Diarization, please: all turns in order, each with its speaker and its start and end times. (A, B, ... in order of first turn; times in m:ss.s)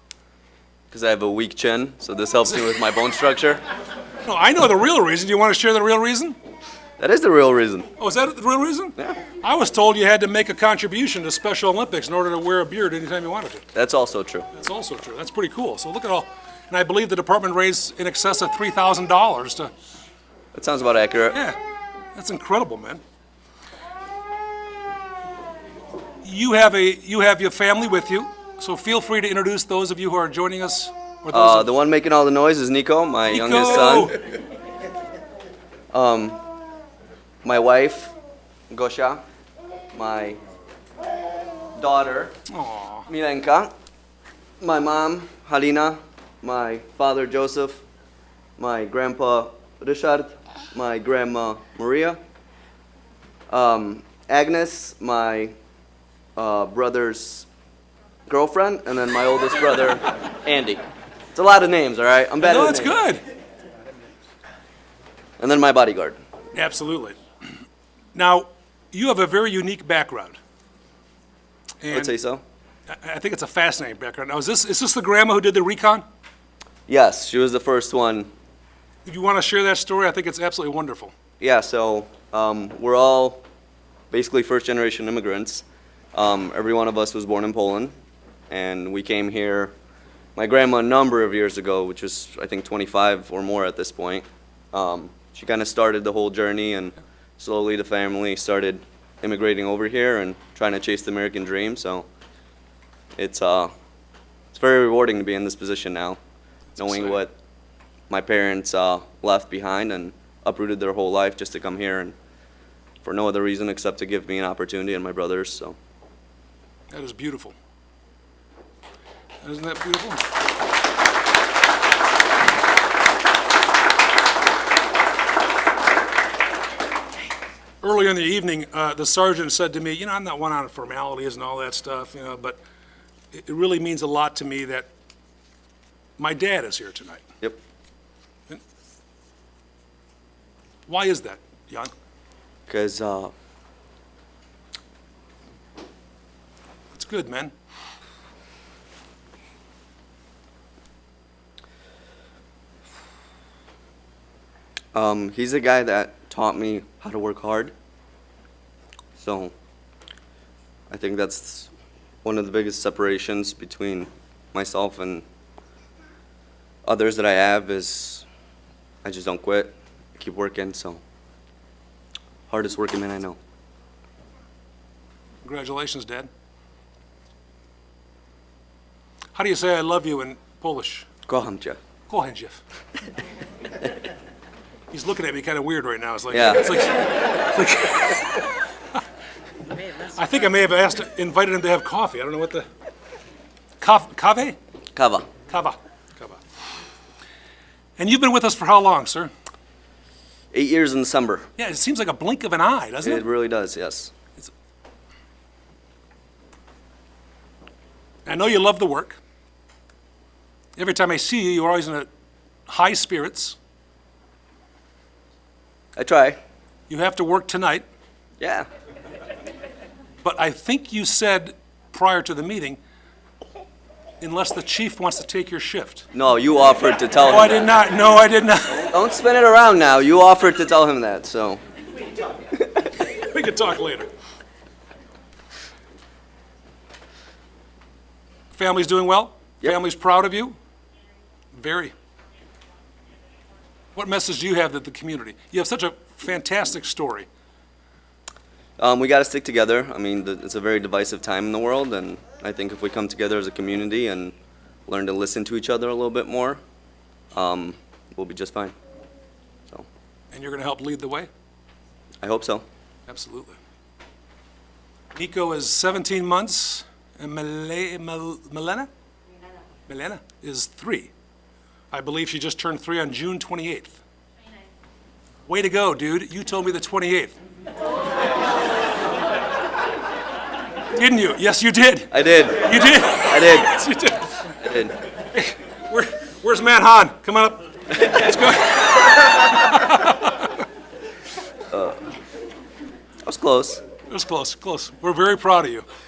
0:00.9-0:03.6 A
0:04.2-0:06.4 B
0:07.0-0:07.9 A
0:08.0-0:13.6 B
0:13.7-0:14.5 A
0:14.5-0:19.7 B
0:20.5-0:21.4 A
0:22.2-0:23.0 B
0:26.2-0:31.7 B
0:31.3-0:34.1 A
0:33.3-0:34.2 B
0:35.9-0:36.4 A
0:37.4-0:38.1 A
0:38.7-0:39.2 A
0:39.9-0:40.4 A
0:41.8-0:42.3 A
0:42.5-0:43.1 B
0:43.1-0:43.7 A
0:44.6-0:47.8 A
0:48.6-0:52.2 A
0:53.5-0:55.5 A
0:56.4-0:57.5 A
0:58.3-1:00.8 A
1:01.4-1:03.0 A
1:02.4-1:03.2 B
1:05.4-1:06.2 A
1:06.5-1:07.2 B
1:08.2-1:10.4 B
1:11.8-1:12.2 B
1:11.9-1:12.4 A
1:12.9-1:16.0 B
1:16.9-1:18.3 A
1:19.1-1:21.1 B
1:21.4-1:23.4 A
1:24.1-1:25.6 A
1:26.2-1:27.9 A
1:28.5-1:29.7 A
1:30.4-1:42.1 A
1:43.2-1:43.7 A
1:44.5-1:46.2 A
1:46.8-1:47.2 B
1:46.8-1:47.4 A
1:48.1-1:52.2 A
1:53.0-1:55.8 A
1:56.9-1:57.6 B
1:59.4-2:00.2 B
2:07.8-2:12.6 B
2:13.3-2:14.9 B
2:16.2-2:17.2 B
2:20.9-2:21.9 B
2:22.7-2:23.3 A
2:26.9-2:27.5 B
2:34.9-2:37.7 A
2:39.2-2:39.5 A
2:40.9-2:41.7 A
2:42.2-2:45.2 A
2:46.8-2:48.3 A
2:49.0-2:51.0 A
2:52.5-2:53.4 A
2:55.4-2:56.3 B
2:59.4-3:01.1 B
3:01.3-3:01.8 A
3:02.1-3:02.6 B
3:04.9-3:09.0 B
3:06.3-3:06.7 A
3:09.9-3:12.7 B
3:13.8-3:14.6 B
3:15.0-3:15.3 A
3:15.5-3:16.4 B
3:18.0-3:19.3 B
3:20.5-3:21.5 A
3:21.6-3:23.3 B
3:23.0-3:24.1 A
3:28.3-3:29.2 B
3:30.8-3:32.1 B
3:32.7-3:33.6 B
3:36.0-3:36.4 A
3:36.9-3:37.8 B
3:38.4-3:38.7 A
3:40.2-3:42.8 B
3:44.2-3:46.1 B
3:46.1-3:47.7 A
3:47.3-3:48.9 B
3:48.7-3:51.6 A
3:53.0-3:54.1 B
3:58.5-4:00.6 B
4:01.5-4:01.9 B
4:04.0-4:07.3 B
4:08.8-4:14.3 A
4:14.9-4:16.6 A
4:17.3-4:18.8 A
4:20.3-4:21.3 B
4:22.2-4:22.6 A
4:23.1-4:23.6 B
4:25.1-4:28.9 B
4:29.9-4:31.1 B
4:31.9-4:34.0 B
4:35.5-4:37.4 B
4:40.9-4:44.5 B
4:42.1-4:43.8 A
4:44.6-4:44.9 A
4:45.3-4:50.5 B
4:51.7-4:52.0 A
4:53.2-4:53.8 A
4:54.1-4:55.8 B